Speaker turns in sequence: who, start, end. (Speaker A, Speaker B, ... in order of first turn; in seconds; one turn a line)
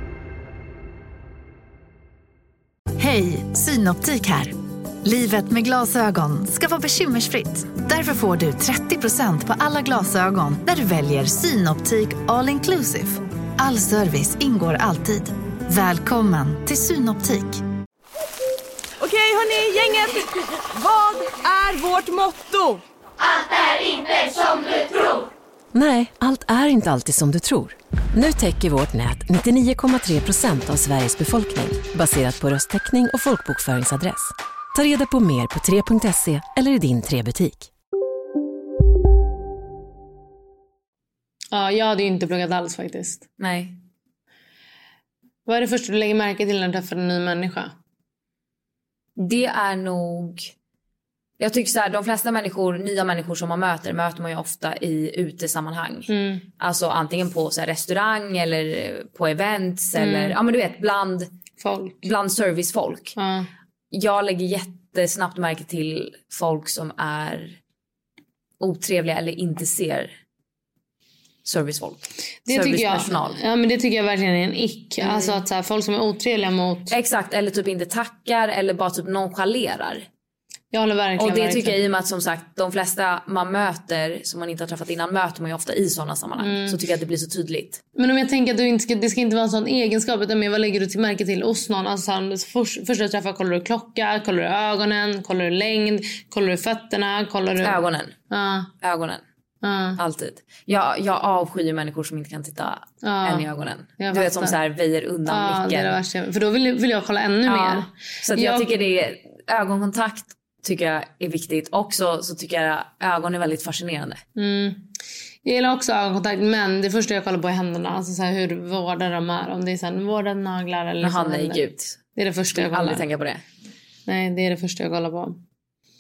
Speaker A: 3.0-17.6
Speaker B: 19.0-22.8
Speaker C: 25.7-37.7
Speaker D: 41.5-43.2
Speaker E: 43.4-43.8
Speaker D: 45.5-47.7
Speaker E: 49.2-50.5
Speaker E: 51.4-61.3
Speaker D: 56.1-56.4
Speaker D: 60.0-60.4
Speaker D: 61.6-62.0
Speaker E: 62.0-63.1
Speaker D: 63.2-63.5
Speaker E: 63.9-67.6
Speaker E: 68.6-70.1
Speaker E: 71.4-73.4
Speaker D: 72.5-76.9
Speaker E: 75.0-75.4
Speaker E: 76.9-80.0
Speaker D: 80.7-81.8
Speaker E: 81.2-87.8
Speaker D: 86.4-86.8
Speaker D: 88.0-98.7
Speaker E: 97.6-98.1
Speaker E: 98.8-99.2
Speaker D: 99.6-100.0
Speaker E: 100.0-106.0
Speaker D: 103.0-103.5
Speaker D: 104.0-104.6
Speaker D: 105.2-108.7
Speaker E: 107.5-114.2
Speaker D: 114.3-114.9
Speaker D: 115.4-123.0
Speaker E: 121.0-122.0
Speaker E: 122.5-123.4
Speaker D: 124.1-125.4